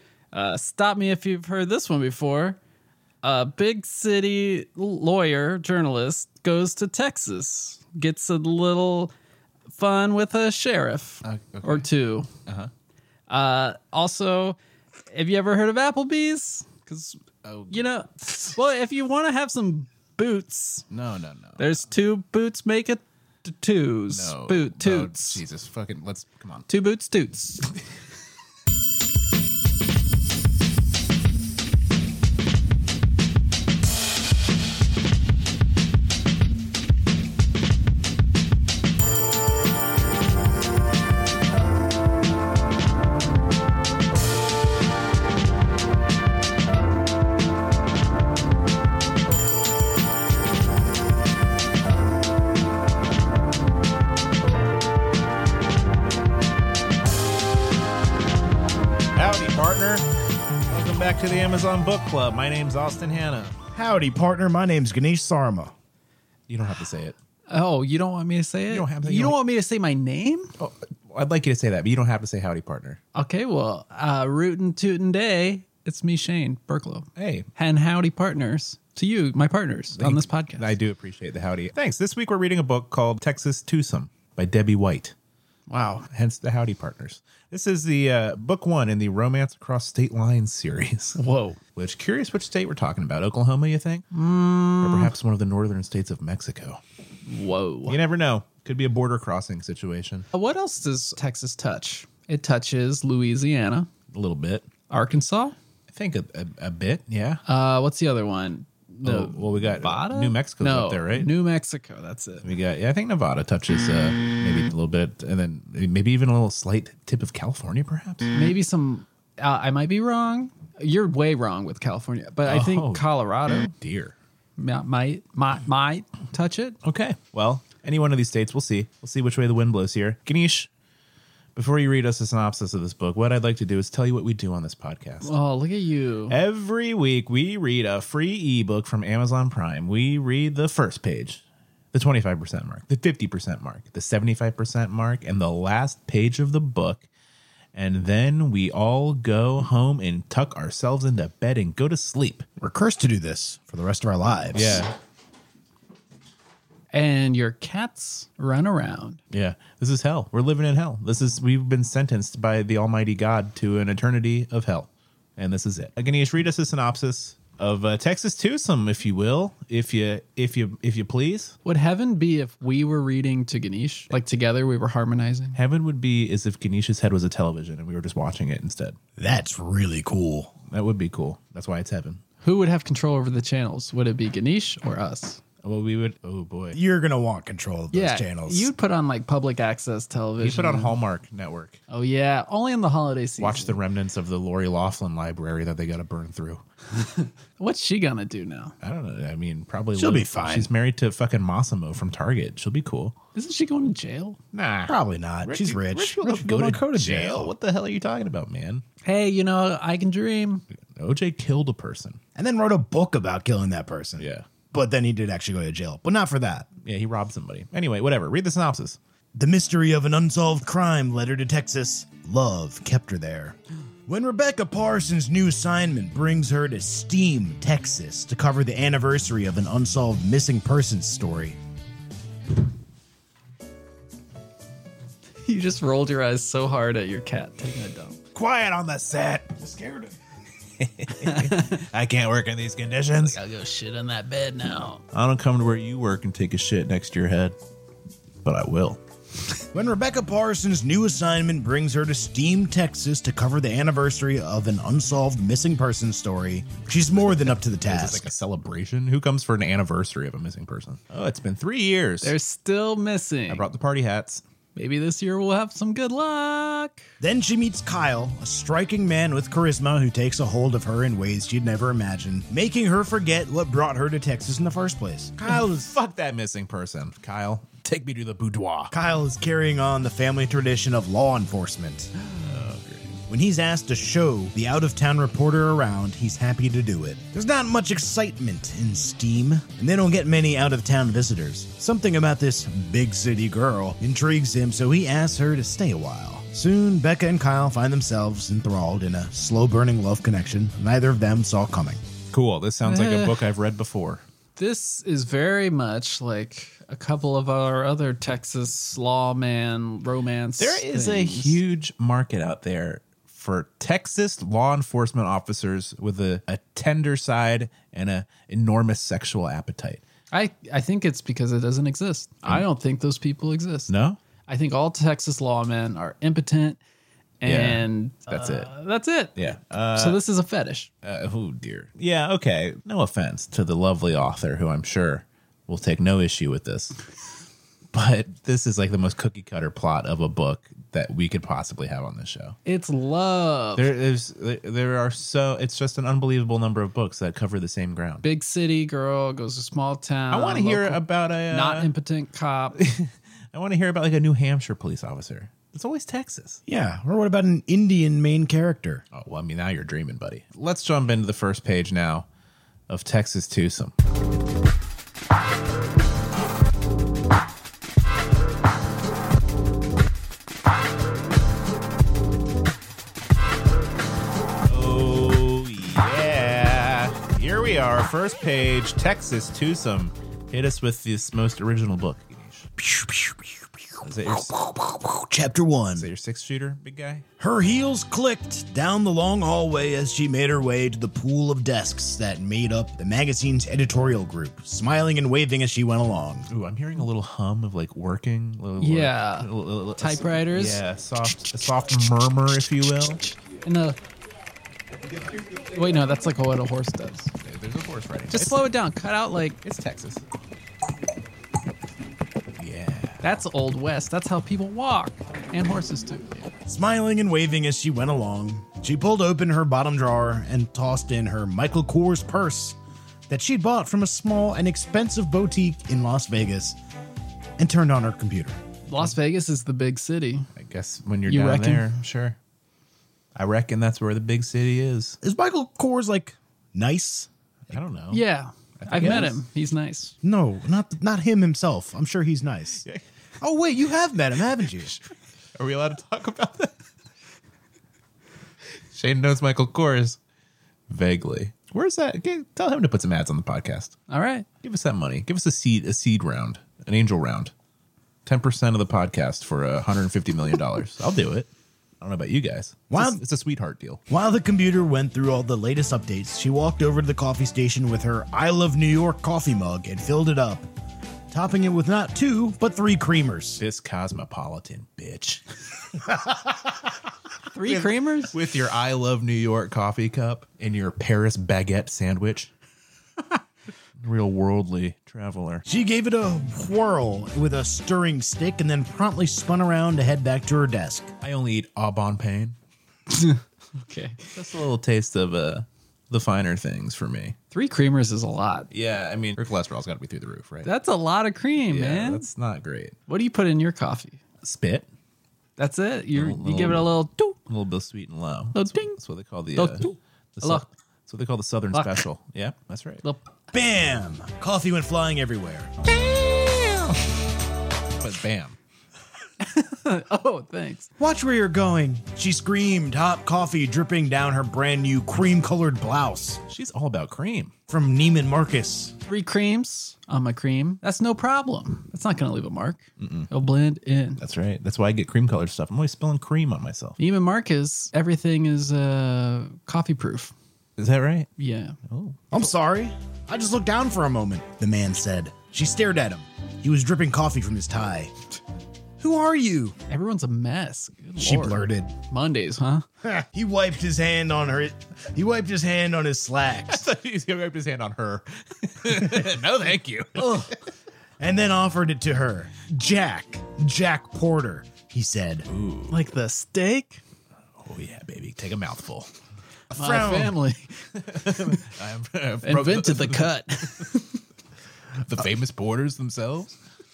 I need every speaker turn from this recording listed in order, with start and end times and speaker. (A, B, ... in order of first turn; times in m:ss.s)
0:00.3-0:02.6 A
0:03.2-0:09.1 A
0:09.7-0:12.3 A
0:11.2-0:11.9 B
0:13.3-0:14.6 A
0:15.1-0:20.9 A
0:17.4-0:17.9 B
0:20.9-0:21.8 B
0:21.6-0:25.4 A
0:24.1-0:26.7 B
0:26.7-0:27.7 A
0:59.2-1:00.0 B
1:00.7-1:03.6 B
1:03.7-1:05.7 C
1:06.5-1:07.2 B
1:07.5-1:10.5 A
1:08.7-1:09.4 B
1:10.6-1:13.0 B
1:13.1-1:20.7 A
1:17.2-1:17.5 B
1:20.0-1:25.1 B
1:25.7-1:26.1 A
1:26.1-1:31.2 B
1:31.2-1:31.6 A
1:31.8-1:34.0 B
1:34.1-1:35.1 A
1:34.8-1:36.8 B
1:37.3-1:38.0 A
1:37.8-1:40.3 B
1:40.3-1:43.9 A
1:44.1-1:44.7 B
1:44.9-1:45.6 A
1:45.9-1:47.4 B
1:47.5-1:52.5 A
1:49.0-1:51.3 B
1:52.4-1:58.3 B
1:58.3-2:03.7 A
2:02.4-2:04.1 B
2:04.6-2:06.8 A
2:06.8-2:10.7 B
2:11.5-2:15.3 B
2:15.2-2:16.4 A
2:16.3-2:21.4 B
2:21.9-2:27.1 B
2:27.7-2:32.5 B
2:32.6-2:34.8 C
2:34.5-2:34.9 B
2:36.9-2:39.2 A
2:39.3-2:51.6 B
2:51.6-2:55.6 A
2:55.5-2:59.0 B
2:59.2-3:00.5 C
3:00.7-3:02.2 B
3:02.4-3:05.4 A
3:05.6-3:06.8 B
3:06.7-3:08.7 C
3:07.9-3:10.9 A
3:10.4-3:11.8 B
3:11.9-3:13.8 A
3:13.4-3:16.6 B
3:17.6-3:18.8 A
3:18.8-3:23.2 B
3:20.0-3:20.7 C
3:23.3-3:24.4 A
3:24.5-3:28.8 B
3:24.9-3:27.5 C
3:29.0-3:30.6 A
3:30.8-3:32.2 B
3:32.3-3:36.7 C
3:34.2-3:34.5 B
3:36.8-3:39.0 B
3:39.3-3:51.6 C
3:55.4-3:58.2 A
3:58.4-4:00.2 C
3:58.4-3:59.0 B
4:00.8-4:03.4 B
4:01.2-4:01.8 A
4:03.1-4:05.0 A
4:05.1-4:07.6 B
4:08.4-4:09.0 B
4:09.7-4:18.3 C
4:17.8-4:22.3 B
4:22.2-4:23.7 A
4:23.5-4:24.4 B
4:24.8-4:27.1 A
4:27.2-4:36.0 C
4:35.8-4:38.9 B
4:38.9-4:42.1 C
4:42.4-4:43.2 B
4:43.3-5:02.0 C
5:02.3-5:04.2 B
5:02.8-5:03.4 A
5:04.6-5:11.6 A
5:10.6-5:20.0 B
5:20.3-5:23.9 A
5:23.9-5:24.2 B
5:24.5-5:26.8 A
5:27.4-5:29.4 A
5:27.4-5:28.7 B
5:29.4-5:30.2 B
5:30.0-5:30.9 A
5:31.0-5:37.0 B
5:37.9-5:42.6 B
5:42.6-5:43.9 A
5:43.8-5:48.2 B
5:48.2-5:52.8 A
5:50.3-5:51.9 B
5:52.8-5:56.6 B
5:56.7-5:59.0 C
5:59.1-6:02.3 B
6:02.9-6:03.9 B
6:14.6-6:22.7 B
6:22.8-6:23.7 C
6:24.0-6:24.5 B
6:24.2-6:26.1 C
6:25.9-6:27.2 B
6:27.4-6:36.5 C
6:36.5-6:43.2 B
6:38.8-6:40.8 A
6:43.6-6:44.0 A
6:45.7-6:47.3 A
6:47.4-6:48.6 B
6:48.3-6:49.6 A
6:49.6-6:50.2 B
6:52.6-6:53.2 B
6:53.2-6:56.3 A
6:56.6-7:02.8 C
7:03.3-7:06.8 C
7:07.6-7:08.6 C
7:08.9-7:10.5 A
7:10.6-7:12.4 B
7:11.3-7:11.9 A
7:13.4-7:15.2 B
7:15.2-7:17.3 C
7:17.7-7:18.2 B
7:18.1-7:20.1 A
7:18.8-7:19.4 B
7:19.0-7:19.3 C
7:20.2-7:22.8 C
7:23.4-7:25.0 C
7:25.6-7:26.7 B
7:28.9-7:30.2 B
7:30.9-7:34.0 B
7:34.1-7:34.4 A
7:34.6-7:37.5 B
7:38.2-7:44.0 B
7:42.9-7:43.2 C
7:44.1-7:50.7 C
7:51.3-7:53.6 C
7:53.6-7:55.4 B
7:57.5-7:58.3 A
7:57.6-8:02.5 B
8:04.0-8:05.6 B
8:05.6-8:11.1 C
8:11.2-8:12.6 B
8:13.1-8:14.3 A
8:14.3-8:17.4 B
8:17.5-8:18.7 A
8:18.7-8:20.7 B
8:20.6-8:22.3 A
8:21.7-8:23.0 B
8:23.1-8:24.2 A
8:24.4-8:24.9 B
8:25.6-8:27.4 A
8:26.1-8:26.9 B
8:27.5-8:33.0 B
8:28.5-8:29.0 A
8:29.6-8:30.6 A
8:31.7-8:32.0 A
8:33.5-8:37.0 C
8:38.0-8:38.6 B
8:39.4-8:40.9 A
8:41.0-8:46.4 C
8:46.5-8:47.5 B
8:47.7-8:49.0 C
8:49.1-8:54.2 A
8:53.0-8:53.3 B
8:54.2-8:57.0 B
8:57.0-9:00.3 A
9:00.8-9:01.3 B
9:01.4-9:01.8 A
9:01.9-9:02.2 B
9:02.3-9:08.1 C
9:09.0-9:09.8 C
9:09.9-9:12.8 A
9:11.2-9:11.9 C
9:13.0-9:16.9 C
9:16.7-9:20.5 B
9:21.2-9:25.5 C
9:25.5-9:26.0 B
9:25.9-9:27.0 A
9:27.6-9:29.1 B
9:29.7-9:30.4 C
9:29.7-9:30.7 A
9:31.0-9:33.3 B
9:32.4-9:34.2 A
9:35.0-9:36.6 B